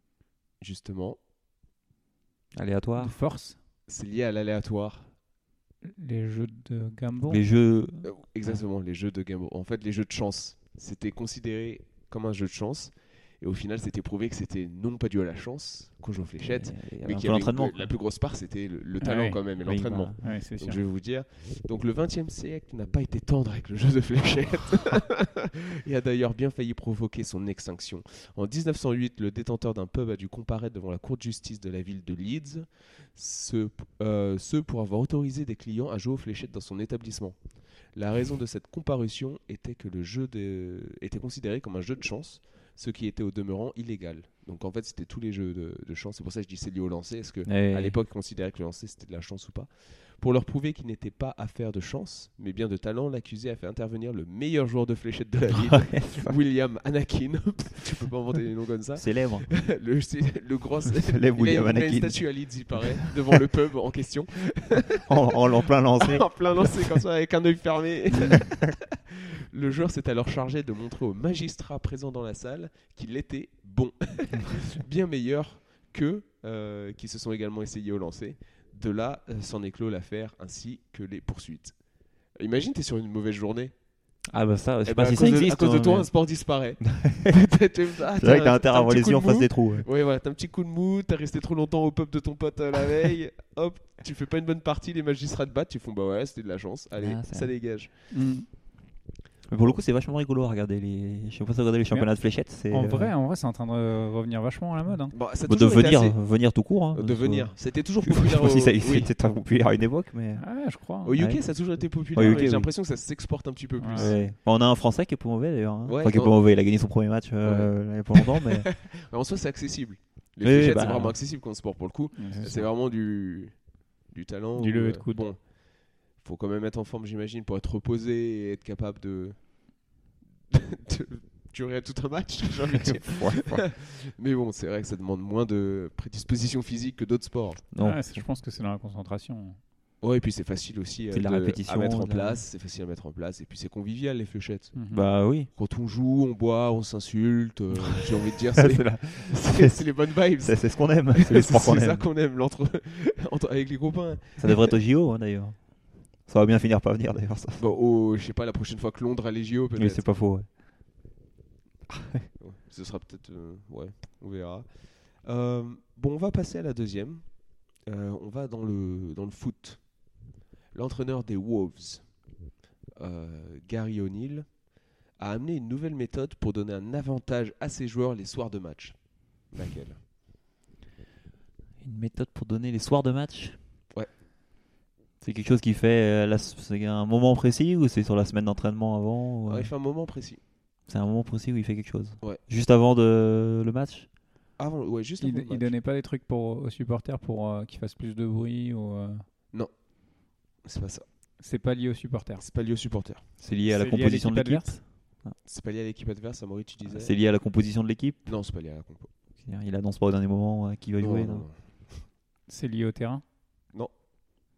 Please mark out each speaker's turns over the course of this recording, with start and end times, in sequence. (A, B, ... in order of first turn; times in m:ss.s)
0:00.6-0:01.2 A
0:02.6-0:03.2 B
0:03.0-0:03.6 C
0:03.9-0:05.1 A
0:05.8-0:07.4 C
0:07.3-0:08.6 B
0:08.0-1:05.4 A
0:16.4-0:17.9 B
0:19.0-0:19.6 C
0:19.6-0:20.2 B
0:20.2-0:20.8 C
0:47.4-0:48.0 B
0:55.7-0:56.4 B
0:59.0-0:59.5 B
1:01.0-1:03.3 B
1:05.0-1:06.9 B
1:06.0-1:21.8 A
1:08.2-1:08.5 B
1:22.4-1:23.7 A
1:24.3-1:26.1 B
1:24.8-1:37.9 A
1:26.9-1:27.3 B
1:28.2-1:29.9 B
1:37.0-1:37.5 B
1:38.1-1:38.5 C
1:39.5-1:43.1 B
1:41.9-1:45.2 C
1:45.1-1:49.1 A
1:45.4-1:50.5 B
1:50.4-1:51.2 C
1:51.0-1:54.2 A
1:51.1-1:52.7 B
1:53.8-1:54.1 C
1:53.9-1:58.7 B
1:55.9-1:56.4 A
1:57.4-2:09.5 A
2:00.4-2:01.2 B
2:02.2-2:02.6 C
2:04.6-2:05.3 C
2:10.5-2:17.6 A
2:12.7-2:13.6 B
2:17.7-2:18.2 B
2:17.8-2:19.6 C
2:20.0-2:24.8 A
2:21.1-2:22.4 B
2:24.7-2:25.0 C
2:24.9-2:25.5 B
2:25.5-2:34.7 A
2:27.8-2:32.1 B
2:34.4-2:37.7 B
2:37.6-2:40.2 A
2:39.8-2:40.5 B
2:42.4-2:50.2 A
2:50.7-2:52.2 A
2:53.0-2:54.6 A
2:55.2-3:00.0 A
3:01.8-3:03.6 B
3:05.2-3:09.7 B
3:09.5-3:10.4 A
3:10.9-3:14.1 B
3:14.6-3:15.7 A
3:15.2-3:19.2 C
3:20.6-3:21.0 A
3:21.4-3:22.4 C
3:22.4-3:23.2 A
3:23.4-3:25.4 B
3:23.7-3:24.8 C
3:25.4-3:27.1 A
3:26.8-3:28.3 B
3:28.3-3:29.1 A
3:29.4-3:31.5 B
3:31.0-3:32.0 A
3:32.5-3:33.2 C